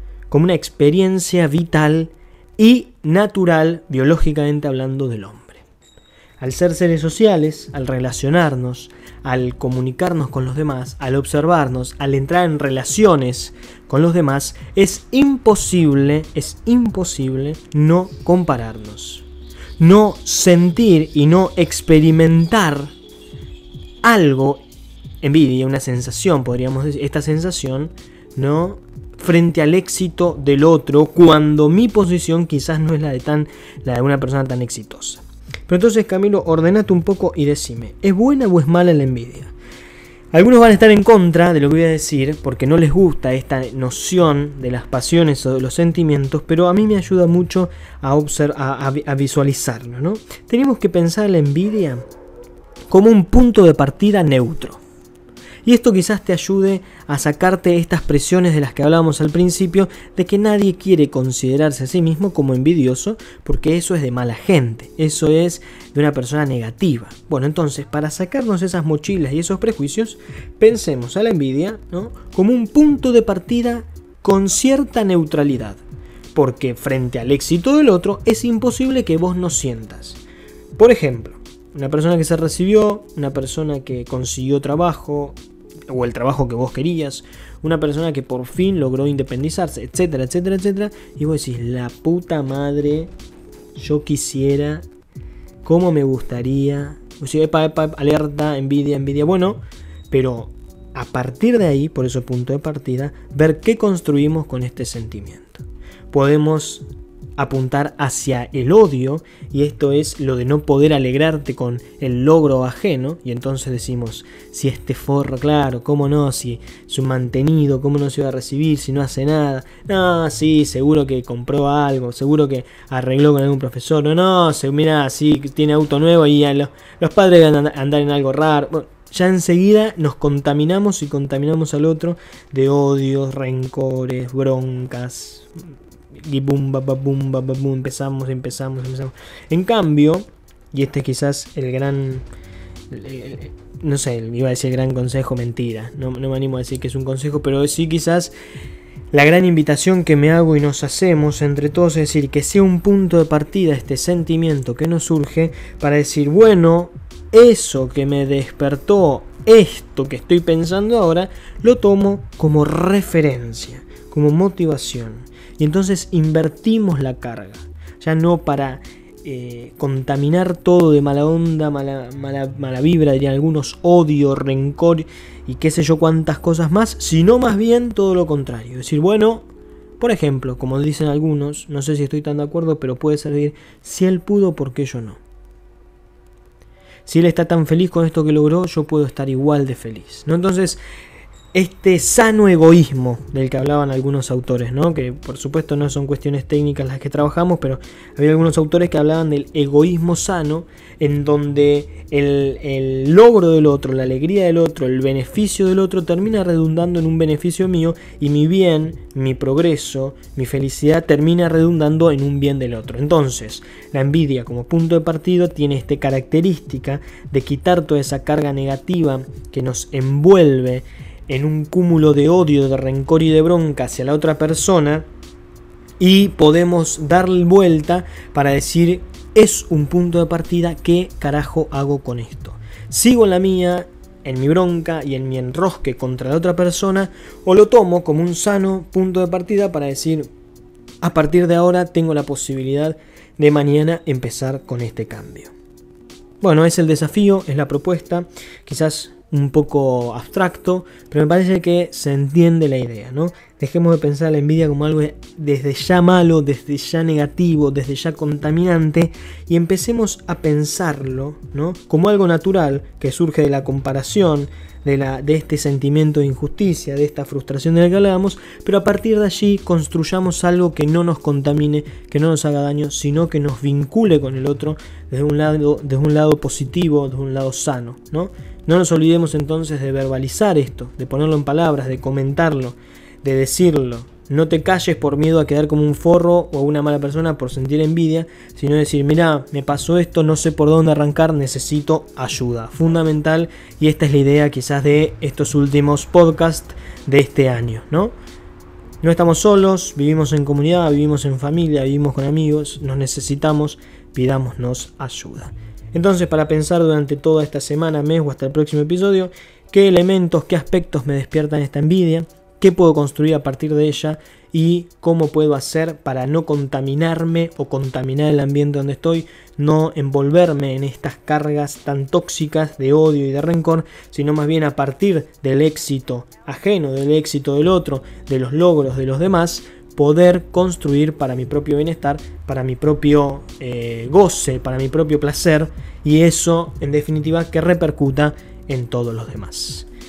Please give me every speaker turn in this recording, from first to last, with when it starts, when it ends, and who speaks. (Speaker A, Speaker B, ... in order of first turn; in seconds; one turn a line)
Speaker A: 0.3-5.6
Speaker A: 6.4-19.2
Speaker A: 19.8-22.9
Speaker A: 24.0-24.6
Speaker A: 25.2-39.5
Speaker A: 40.3-52.1
Speaker A: 52.9-54.8
Speaker A: 55.6-75.8
Speaker A: 76.3-80.2
Speaker A: 80.8-85.4
Speaker A: 85.9-93.1
Speaker A: 93.8-94.8
Speaker A: 95.6-106.9
Speaker A: 107.4-135.5
Speaker A: 136.1-142.2
Speaker A: 142.9-148.3
Speaker A: 149.1-179.5
Speaker A: 180.0-185.2
Speaker A: 187.1-190.8
Speaker A: 191.5-225.1
Speaker A: 226.0-240.3
Speaker A: 241.0-245.5
Speaker A: 246.4-298.1
Speaker A: 299.0-339.9